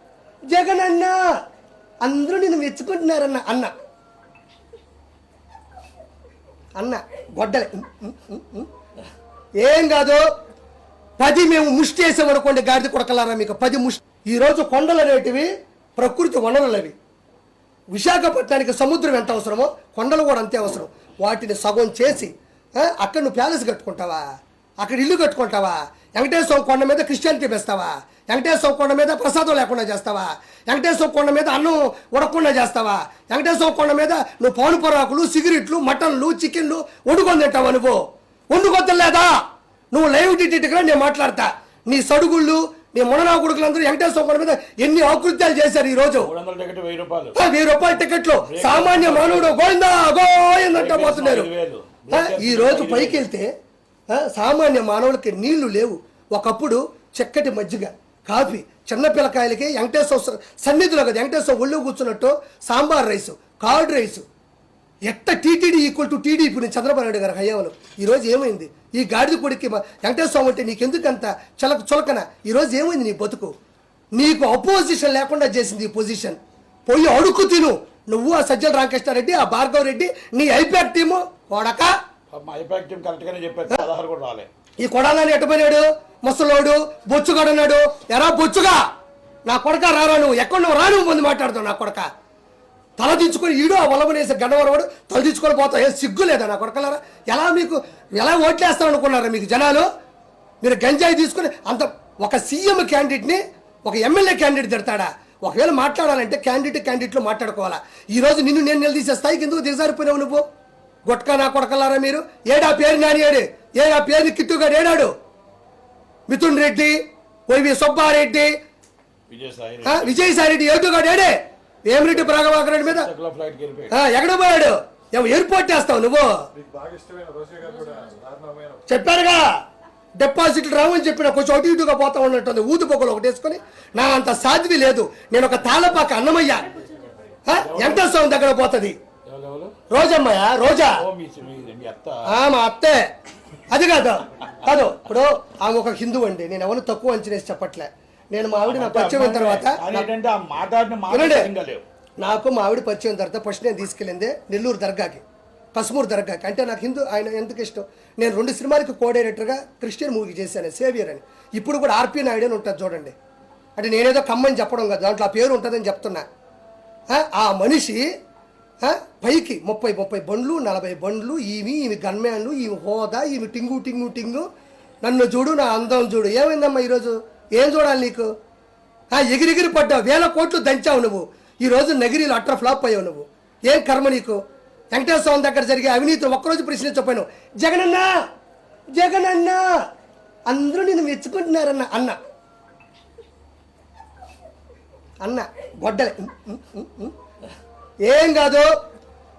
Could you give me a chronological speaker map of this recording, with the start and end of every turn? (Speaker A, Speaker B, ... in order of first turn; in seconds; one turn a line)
Speaker A: 0.5-1.2
Speaker A: 2.0-3.7
Speaker A: 6.8-8.7
Speaker A: 9.6-10.2
Speaker A: 11.2-16.9
Speaker A: 17.9-24.2
Speaker A: 24.8-38.0
Speaker A: 38.5-39.4
Speaker A: 39.9-46.3
Speaker B: 46.2-47.4
Speaker A: 47.3-51.5
Speaker B: 48.4-49.6
Speaker B: 50.7-53.3
Speaker A: 52.1-53.5
Speaker A: 54.1-64.2
Speaker A: 65.1-73.5
Speaker A: 74.2-81.9
Speaker B: 82.3-84.5
Speaker A: 84.8-88.8
Speaker A: 89.5-92.0
Speaker A: 93.0-99.9
Speaker A: 100.6-110.4
Speaker A: 111.0-115.1
Speaker A: 116.3-118.5
Speaker B: 119.3-120.2
Speaker A: 119.8-123.1
Speaker B: 122.0-123.9
Speaker A: 123.9-126.3
Speaker C: 126.6-128.8
Speaker A: 128.9-129.5
Speaker A: 130.2-136.8
Speaker A: 137.5-139.0
Speaker B: 137.6-138.1
Speaker B: 139.3-139.7
Speaker A: 139.9-141.0
Speaker B: 140.9-142.3
Speaker A: 142.3-143.0
Speaker A: 143.7-150.1
Speaker B: 148.7-151.8
Speaker A: 151.1-151.5
Speaker A: 152.2-155.2
Speaker A: 155.7-163.1
Speaker A: 163.8-166.2
Speaker A: 167.1-168.0
Speaker A: 168.8-174.5
Speaker A: 175.0-178.3
Speaker A: 179.1-184.4
Speaker A: 184.9-188.1
Speaker A: 188.9-189.6
Speaker A: 190.5-192.2
Speaker A: 195.2-197.1
Speaker A: 198.1-198.7